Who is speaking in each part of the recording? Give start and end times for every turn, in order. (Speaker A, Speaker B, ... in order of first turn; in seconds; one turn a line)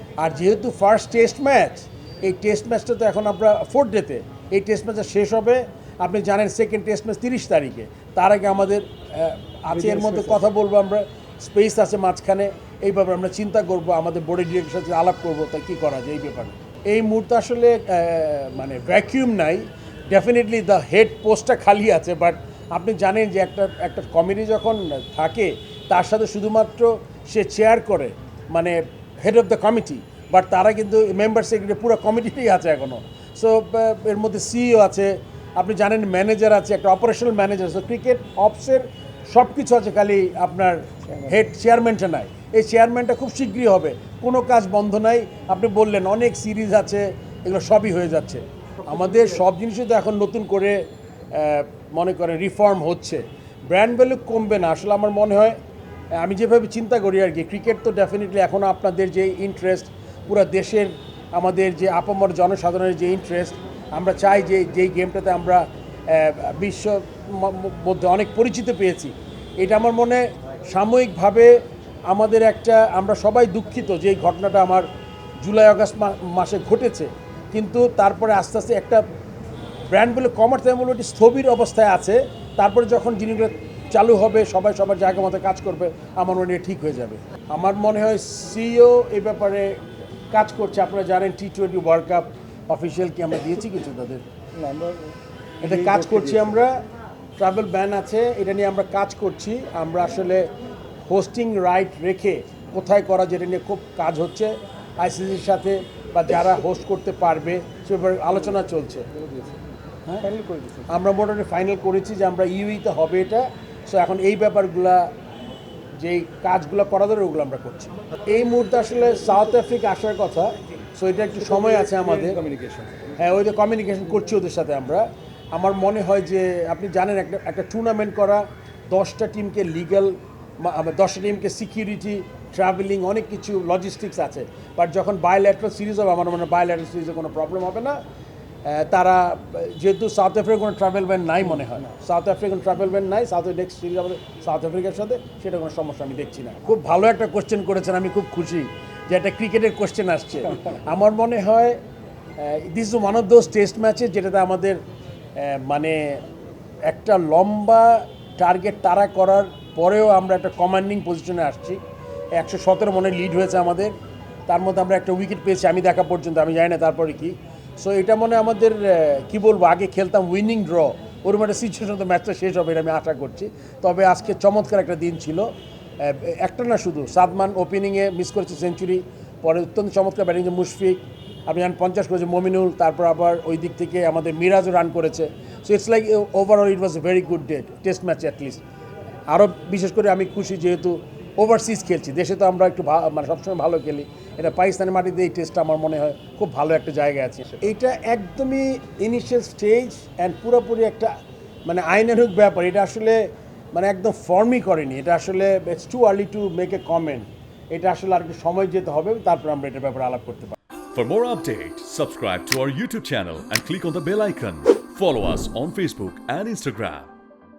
Speaker A: 0.2-55.6
Speaker B: 9.7-10.4
Speaker B: 41.0-41.4
Speaker A: 56.1-74.9
Speaker A: 75.4-79.0
Speaker A: 79.9-94.2
Speaker B: 94.5-96.6
Speaker A: 95.6-96.8
Speaker A: 97.4-100.5
Speaker A: 101.0-109.1
Speaker B: 109.1-109.6
Speaker B: 110.2-110.9
Speaker A: 110.9-115.1
Speaker A: 116.0-122.4
Speaker B: 121.4-123.2
Speaker A: 123.2-138.0
Speaker A: 138.6-151.8
Speaker A: 152.4-154.8
Speaker A: 155.3-156.2
Speaker A: 156.8-161.8
Speaker A: 162.3-163.9
Speaker A: 164.5-188.6
Speaker A: 189.3-201.1
Speaker A: 201.7-210.6
Speaker C: 210.9-217.1